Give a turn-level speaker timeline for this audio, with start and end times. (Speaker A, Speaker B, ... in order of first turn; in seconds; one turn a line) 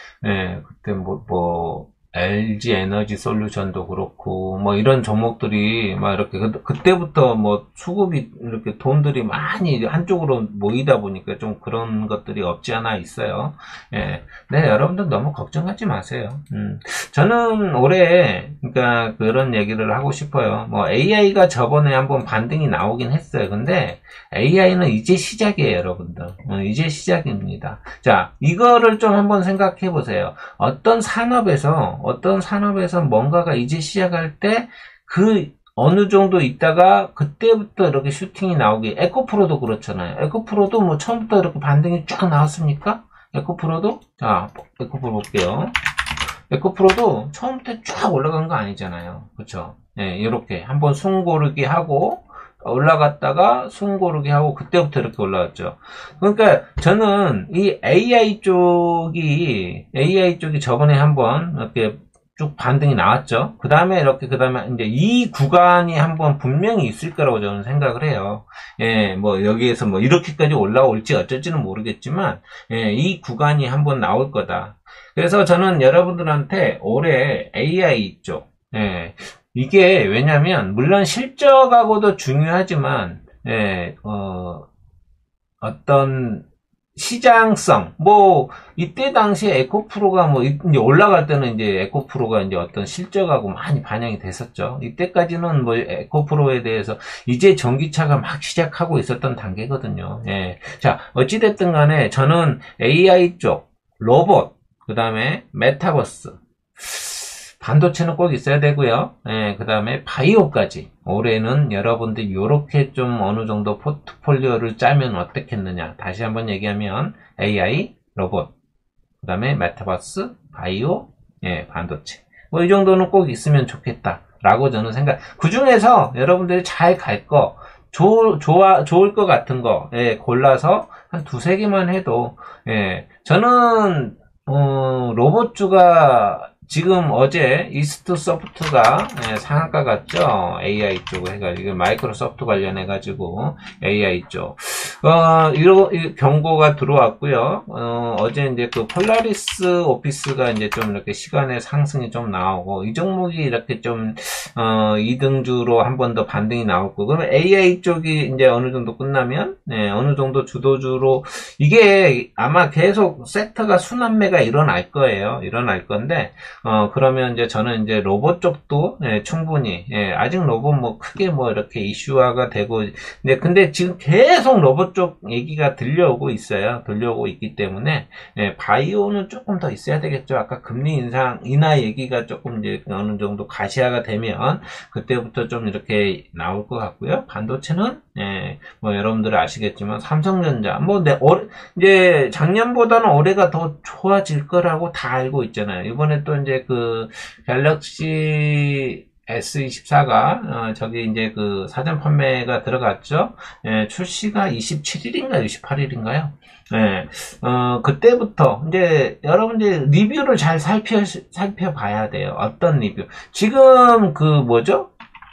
Speaker A: 0.2-45.7
Speaker A: 46.5-84.6
Speaker A: 85.6-86.4
Speaker A: 87.0-118.5
Speaker A: 119.2-214.9